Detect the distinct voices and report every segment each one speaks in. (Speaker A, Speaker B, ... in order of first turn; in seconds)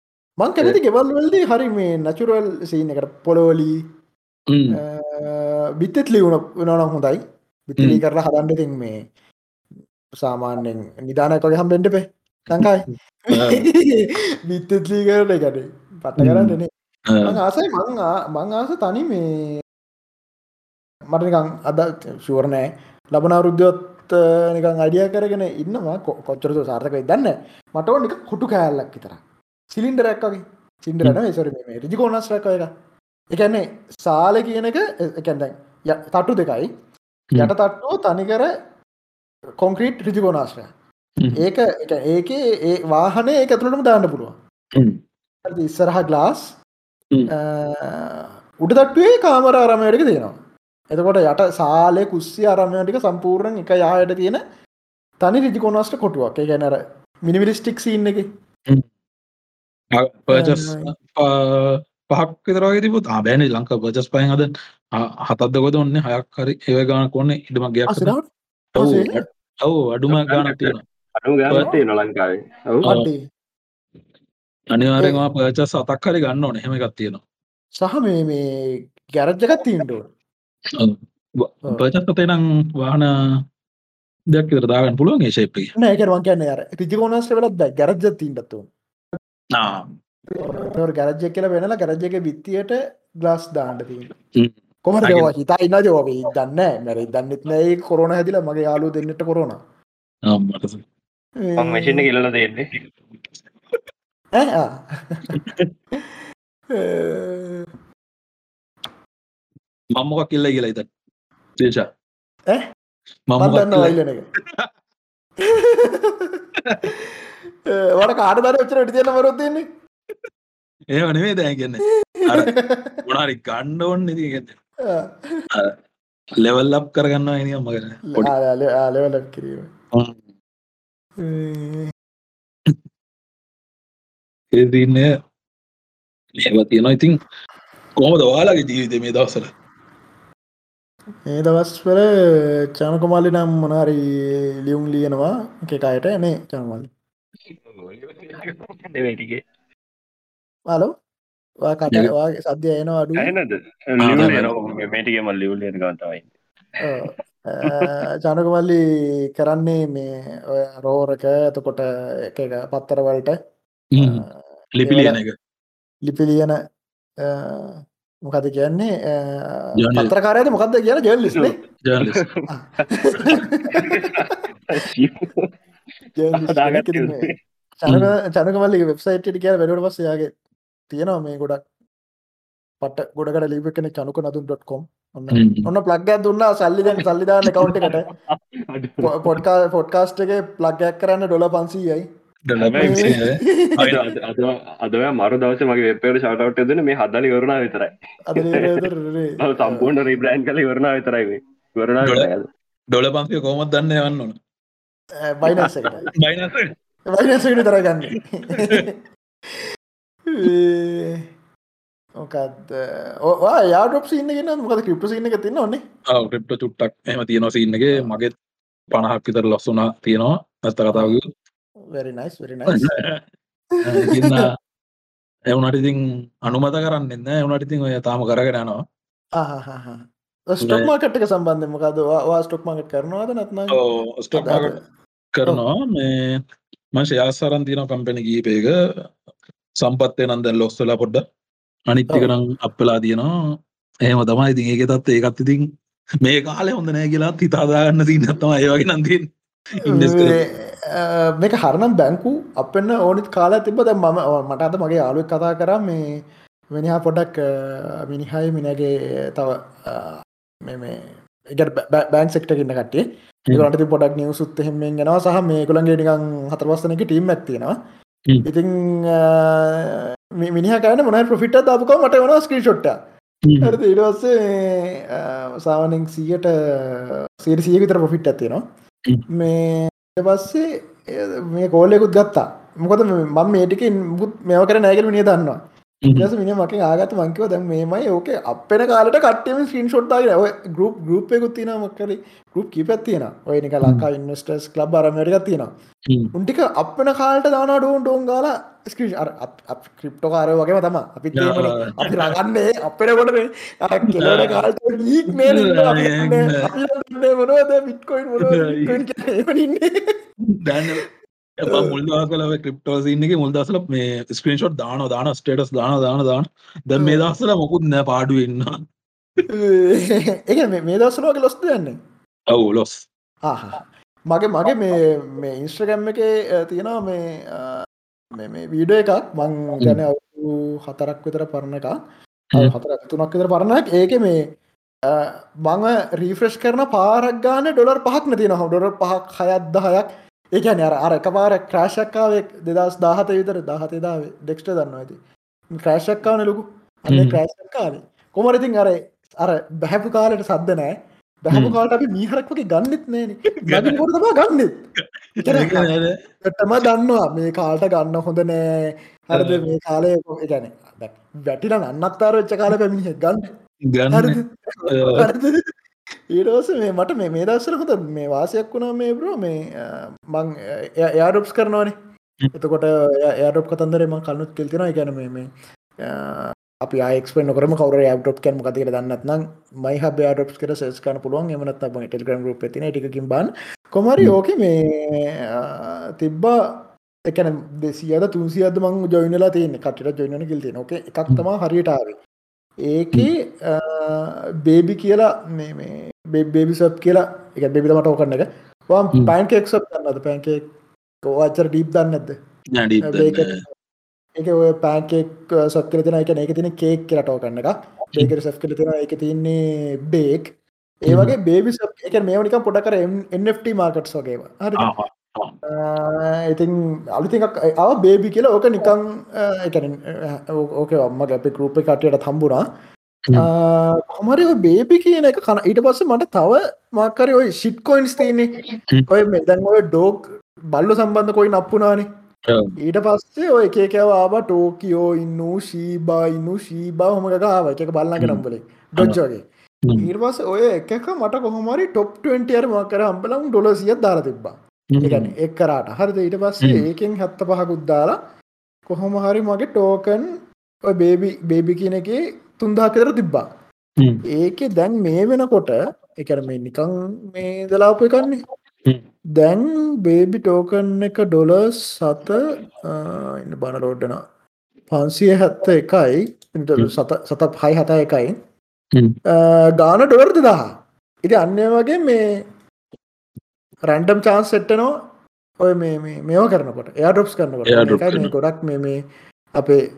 Speaker A: 0.4-3.8, 4.7-9.0, 10.2-16.7, 17.2-19.6, 21.1-32.7, 33.3-36.7, 37.4-38.5, 39.6-40.7, 41.4-44.4, 45.4-46.5, 47.3-50.4, 50.9-54.4, 55.2-58.2, 60.3-60.9, 67.9-68.2, 68.8-69.1, 72.8-73.2, 77.8-80.1, 85.7-88.7, 90.3-94.1, 94.8-99.6, 101.4-102.1, 104.3-105.4, 106.7-107.7, 113.4-114.2, 115.4-117.2, 117.7-119.6, 122.1-123.0, 124.8-125.5, 128.1-129.7, 131.2-131.9, 141.3-146.9, 151.6-153.3, 156.8-158.8, 159.3-163.4, 164.0-164.3, 164.8-165.2, 166.0-166.6, 167.2-171.6, 172.6-174.3, 176.2-180.3, 180.9-181.6, 182.8-188.1, 189.0-192.1, 192.8-194.0, 198.3-199.9, 205.2-206.1, 207.1-209.0, 210.3-211.3, 212.2-215.8, 220.9-221.2, 221.9-222.9, 223.9-224.5, 229.4-233.8, 234.3-234.8, 249.8-256.1, 256.7-267.7, 268.4-273.0, 273.6-278.6, 279.3-285.6, 286.1-295.7, 296.3-310.2, 311.7-312.0, 317.0-317.2, 319.5-322.0, 323.4-332.0, 332.5-334.4, 335.1-345.2, 345.8-354.7, 355.4-355.9, 356.4-363.4, 364.1-365.7, 366.3-371.9, 372.5-375.5, 376.0-392.2, 392.8-400.6, 401.2-402.3, 403.0-403.6, 404.4-414.9, 415.6-422.6, 423.3-432.1, 432.8-439.4, 440.0-448.2, 448.9-450.3, 450.9-453.4, 454.3-458.4, 459.4-464.2, 464.9-468.4, 469.3-470.7, 471.2-472.2, 473.9-474.9, 475.6-479.0, 479.5-479.8
Speaker B: 4.5-4.8, 13.3-13.7, 16.2-16.6, 17.1-17.4, 44.7-45.0, 59.9-68.1, 68.8-70.8, 74.7-77.2, 80.7-83.4, 84.3-85.7, 89.5-89.9, 94.4-95.3, 100.3-100.8, 105.3-105.7, 110.0-110.9, 111.6-111.8, 113.3-113.9, 116.6-116.9, 120.9-122.5, 123.0-124.5, 126.4-128.3, 129.9-130.2, 134.5-135.1, 136.4-137.2, 138.0-139.5, 154.0-154.5, 163.9-165.3, 169.8-170.1, 171.8-172.2, 177.9-178.1, 185.3-185.7, 192.5-194.1, 202.0-202.3, 202.9-204.3, 206.2-206.7, 208.5-208.8, 216.1-218.3, 218.9-221.3, 222.7-223.2, 223.8-224.5, 225.5-228.8, 230.6-230.9, 233.7-234.7, 235.3-236.4, 236.9-239.1, 239.8-241.2, 241.9-243.3, 244.1-245.7, 246.2-250.4, 273.4-273.8, 286.0-286.3, 296.1-296.3, 301.4-302.4, 304.1-304.7, 305.4-306.6, 308.4-309.0, 310.4-311.1, 311.6-318.8, 322.5-323.0, 347.1-347.4, 351.5-351.8, 353.6-354.0, 355.3-356.2, 359.3-359.6, 363.9-364.4, 364.9-365.3, 402.7-403.6, 411.1-411.3, 414.8-415.5, 432.5-432.7, 439.8-440.1, 444.9-445.3, 454.0-454.2, 477.7-478.3
Speaker C: 70.1-72.8, 101.6-102.7, 147.6-149.4, 153.2-156.3, 171.3-175.5, 176.3-177.3, 187.6-189.3, 192.6-193.2, 193.8-198.8, 199.4-202.5, 205.5-206.1